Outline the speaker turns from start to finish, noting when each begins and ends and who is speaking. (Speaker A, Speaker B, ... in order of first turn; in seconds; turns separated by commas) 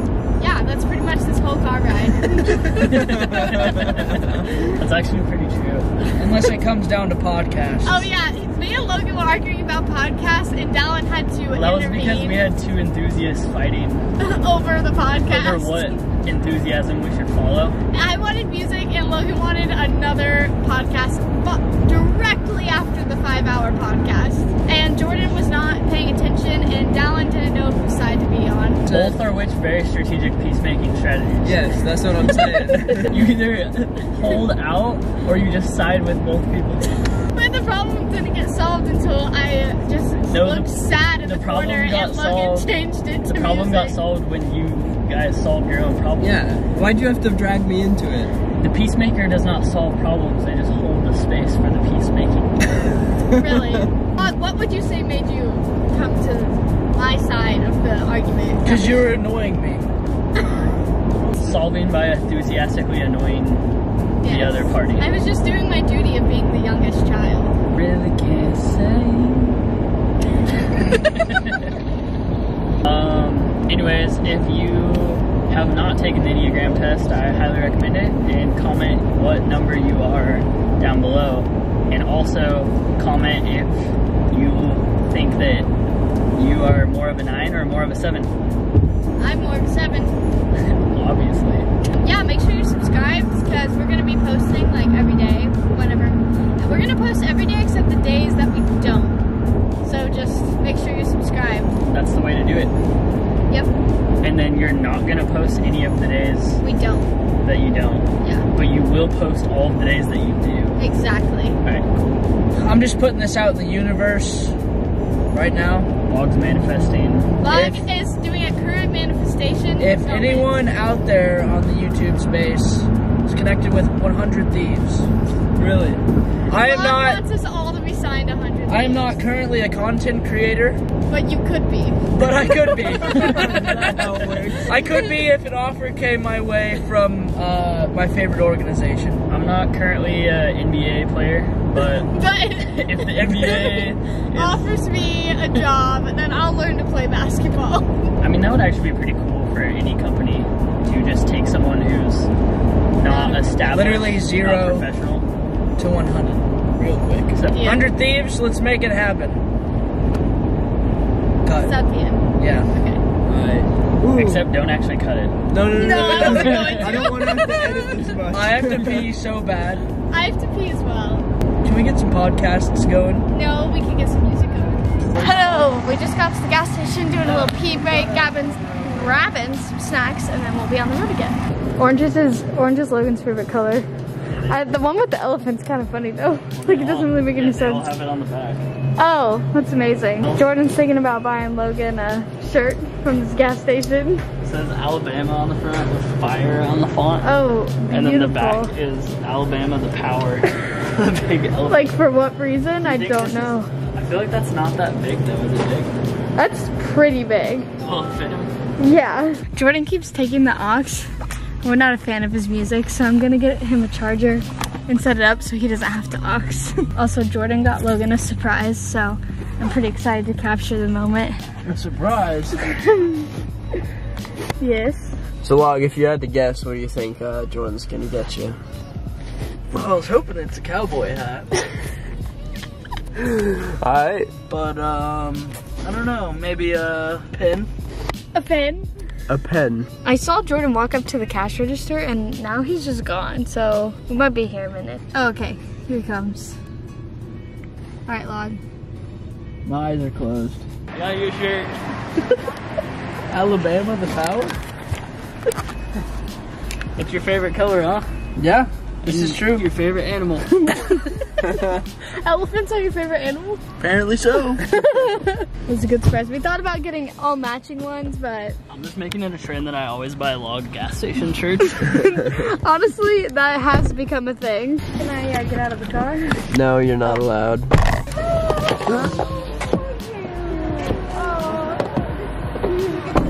Speaker A: 0.4-3.6, Speaker B: 2.8-5.9, Speaker C: 6.2-8.1, Speaker A: 7.9-12.5, Speaker B: 11.5-14.1, Speaker A: 14.2-16.0, Speaker B: 15.2-17.8, Speaker A: 17.9-28.9, Speaker D: 28.9-29.2, Speaker B: 28.9-31.8, Speaker D: 31.4-33.2, Speaker B: 32.9-37.0, Speaker A: 37.3-44.0, Speaker B: 40.3-42.7, Speaker B: 43.2-46.4, Speaker D: 46.2-48.3, Speaker B: 48.6-52.6, Speaker A: 53.3-59.0, Speaker C: 58.6-59.9, Speaker B: 61.3-63.7, Speaker B: 64.2-65.3, Speaker A: 64.2-67.6, Speaker B: 67.8-69.6, Speaker B: 70.9-71.7, Speaker B: 72.8-85.7, Speaker B: 86.3-88.3, Speaker A: 89.2-90.1, Speaker B: 90.6-91.7, Speaker A: 92.0-99.2, Speaker A: 99.8-101.7, Speaker B: 101.9-102.7, Speaker B: 104.2-106.6, Speaker A: 106.6-107.1, Speaker B: 107.4-110.8, Speaker A: 110.8-111.6, Speaker B: 111.6-112.2, Speaker C: 112.5-114.6, Speaker C: 115.3-115.9, Speaker B: 116.1-117.3, Speaker A: 117.4-120.5, Speaker C: 117.5-117.9, Speaker C: 119.8-125.1, Speaker B: 125.7-126.0, Speaker C: 126.5-127.2, Speaker A: 126.5-129.2, Speaker C: 128.7-130.8, Speaker A: 131.1-132.0, Speaker C: 132.1-134.0, Speaker A: 132.8-133.2, Speaker B: 133.1-134.3, Speaker D: 133.2-134.8, Speaker C: 134.7-139.2, Speaker B: 139.3-142.1, Speaker A: 142.1-143.7, Speaker B: 142.7-144.8, Speaker A: 144.3-148.1, Speaker B: 148.2-152.3, Speaker B: 153.0-155.3, Speaker A: 153.0-153.7, Speaker C: 153.7-154.9, Speaker C: 155.8-159.4, Speaker B: 157.3-157.6, Speaker A: 157.6-157.8, Speaker C: 161.4-161.7, Speaker A: 161.7-163.0, Speaker C: 162.4-162.7, Speaker D: 163.2-164.5, Speaker B: 164.1-165.3, Speaker D: 165.5-169.0, Speaker A: 165.8-167.9, Speaker B: 166.1-166.9, Speaker C: 168.3-169.8, Speaker A: 170.1-171.3, Speaker C: 171.6-173.3, Speaker A: 173.3-179.1, Speaker B: 175.0-175.7, Speaker E: 175.5-175.9, Speaker E: 177.0-183.9, Speaker C: 177.4-177.7, Speaker E: 184.4-187.9, Speaker B: 186.5-188.7, Speaker E: 189.0-194.2, Speaker B: 190.2-190.5, Speaker B: 194.4-197.3, Speaker E: 197.2-198.7, Speaker B: 197.9-201.9, Speaker E: 201.7-203.7, Speaker B: 202.8-205.9, Speaker E: 206.4-207.7, Speaker B: 207.8-208.5, Speaker E: 208.8-211.1, Speaker E: 211.6-221.4, Speaker C: 221.7-222.6, Speaker E: 224.6-225.2, Speaker D: 225.4-228.6, Speaker C: 229.7-231.6, Speaker D: 233.2-234.3, Speaker C: 234.5-237.7, Speaker E: 238.3-238.8, Speaker D: 239.3-239.9, Speaker E: 240.1-246.6, Speaker E: 248.1-248.6, Speaker C: 249.7-250.6, Speaker B: 250.9-251.8, Speaker C: 253.3-254.6, Speaker B: 257.0-258.1, Speaker C: 258.4-259.6, Speaker B: 259.0-260.6, Speaker A: 262.2-263.6, Speaker C: 263.8-264.6, Speaker E: 265.7-268.6, Speaker B: 268.7-271.9, Speaker E: 271.9-276.4, Speaker D: 276.5-277.7, Speaker E: 278.3-279.1, Speaker E: 279.6-281.8